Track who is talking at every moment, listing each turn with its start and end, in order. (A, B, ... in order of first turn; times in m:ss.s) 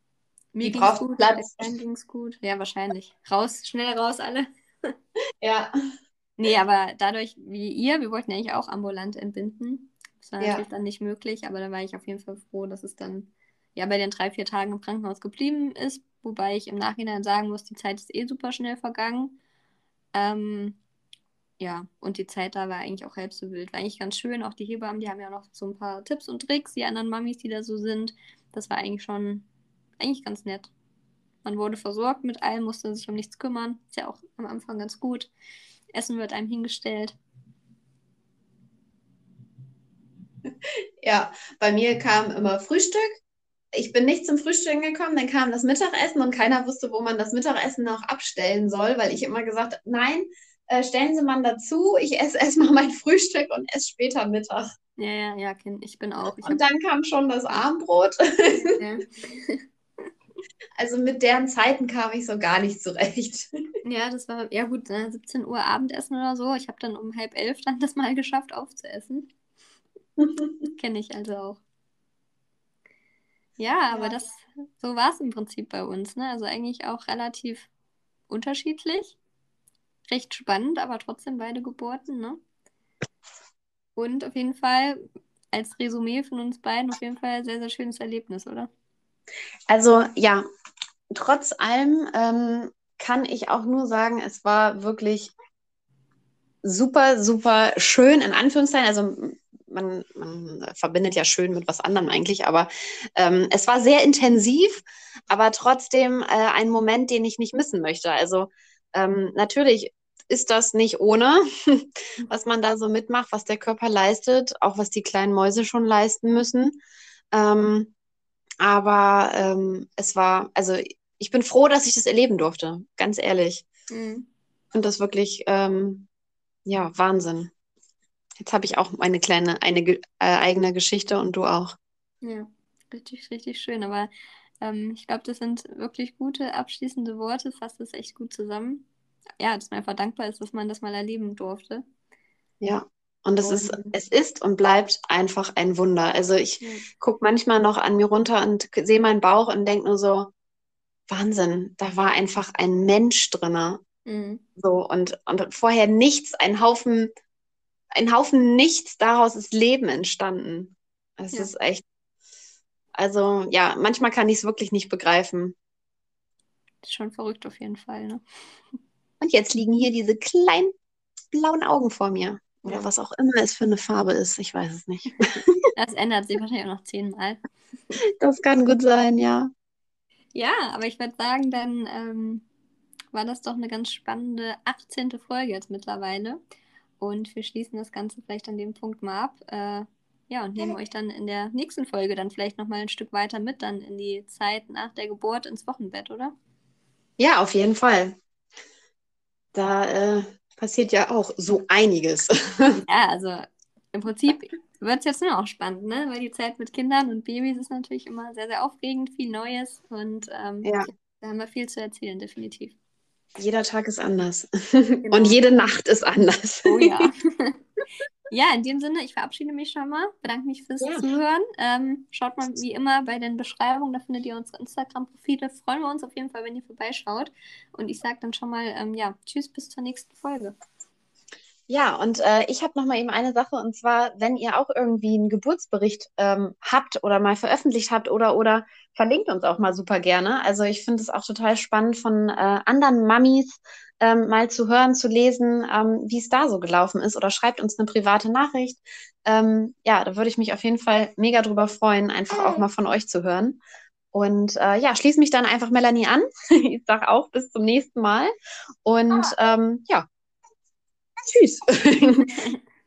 0:00.5-0:04.9 A
0:00.6-0:01.6 B
0:05.4-0:05.7 B
0:06.4-0:19.4 A
0:20.1-0:20.8 A
0:21.6-0:29.5 A
0:30.0-0:30.7 A
0:31.4-0:35.3 A
0:35.9-0:37.2 A
0:41.0-0:43.2 B
0:43.7-0:54.7 B
0:55.0-0:56.6 A
0:56.4-0:58.8 B
0:58.5-0:59.6 A
1:00.8-1:03.5 B
1:03.8-1:09.3 A
1:10.2-1:10.5 B
1:10.8-1:11.6 A
1:13.6-1:17.7 A
1:13.9-1:14.2 B
1:18.3-1:19.2 A
1:20.1-1:22.4 A
1:24.0-1:25.0 A
1:25.5-1:28.7 A
1:29.7-1:30.4 B
1:31.1-1:35.3 B
1:36.6-1:56.8 B
1:57.3-1:57.9 B
1:58.6-2:03.7 B
2:03.9-2:04.3 A
2:04.7-2:06.1 B
2:06.7-2:07.5 B
2:08.4-2:11.8 B
2:12.2-2:14.1 A
2:14.6-2:18.9 A
2:19.4-2:21.8 A
2:22.6-2:30.3 B
2:23.4-2:23.9 A
2:31.1-2:33.8 B
2:34.1-2:34.4 A
2:34.6-2:37.1 B
2:37.9-2:41.8 B
2:43.0-2:45.6 B
2:46.8-2:48.2 A
2:49.2-2:50.7 B
2:51.3-2:55.6 B
2:55.8-2:57.4 A
2:58.2-2:59.5 B
3:00.4-3:02.4 A
3:03.1-3:06.4 A
3:07.0-3:16.3 A
3:17.2-3:18.2 B
3:19.6-3:22.8 B
3:22.9-3:32.8 A
3:33.4-3:37.1 B
3:35.0-3:35.4 A
3:36.7-3:37.6 A
3:38.3-3:50.6 A
3:51.7-4:13.6 B
4:14.1-4:18.3 B
4:18.8-4:20.1 B
4:21.3-4:22.4 B